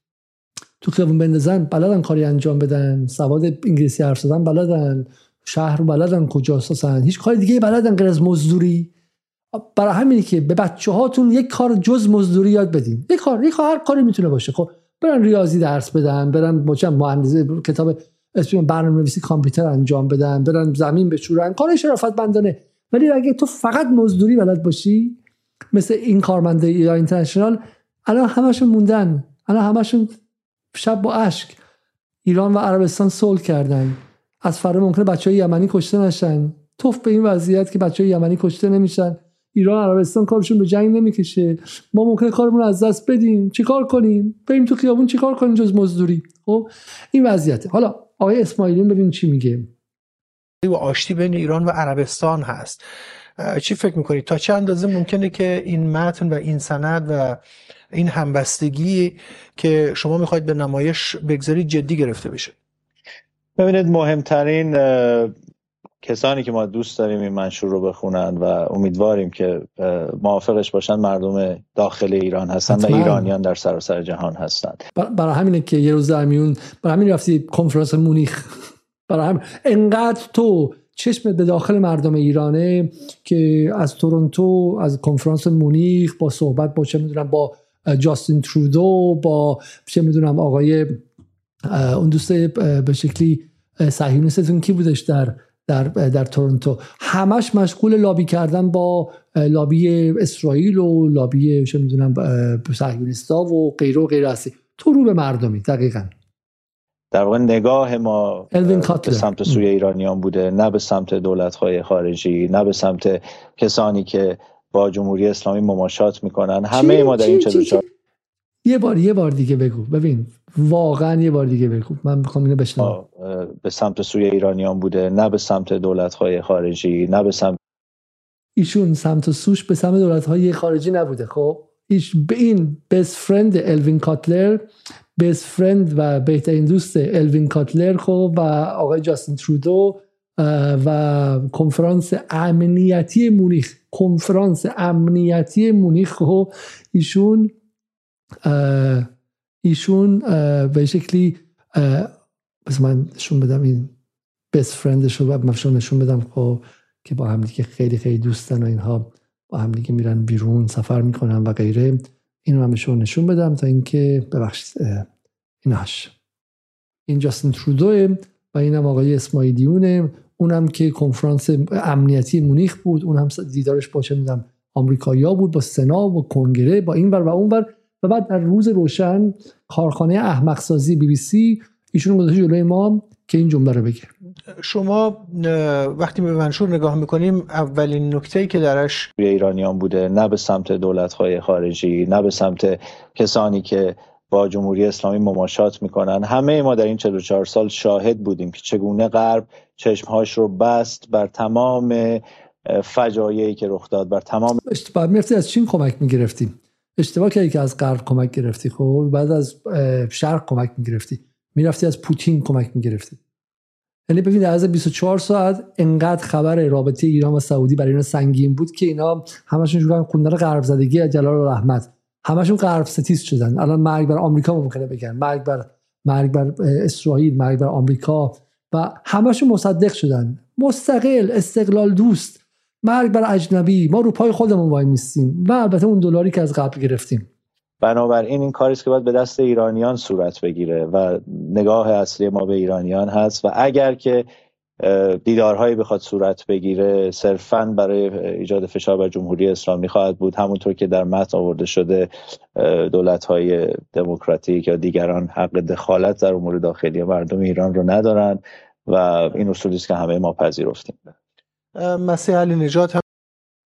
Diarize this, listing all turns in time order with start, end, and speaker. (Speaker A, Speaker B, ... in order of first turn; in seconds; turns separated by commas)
Speaker A: 0.8-8.9, Speaker A: 9.5-25.1, Speaker A: 25.7-30.1, Speaker A: 30.7-31.6, Speaker A: 32.2-49.7, Speaker B: 50.6-52.8, Speaker B: 53.4-57.4, Speaker B: 57.9-62.5, Speaker C: 63.6-65.3, Speaker C: 66.0-74.8, Speaker A: 72.7-73.3, Speaker A: 75.0-78.5, Speaker A: 79.1-91.0, Speaker A: 91.7-106.1, Speaker C: 107.1-117.8, Speaker A: 108.5-109.6, Speaker A: 116.7-117.8, Speaker A: 118.6-123.0, Speaker C: 122.8-127.6, Speaker A: 128.6-147.5, Speaker A: 148.4-149.1, Speaker A: 149.6-152.1, Speaker A: 152.7-153.9, Speaker A: 154.5-165.1, Speaker A: 165.6-166.1, Speaker A: 167.1-184.1, Speaker B: 184.6-189.1, Speaker C: 189.2-204.6, Speaker A: 204.6-213.2, Speaker A: 214.1-237.3, Speaker C: 237.8-244.2, Speaker C: 244.8-261.1, Speaker B: 261.7-263.0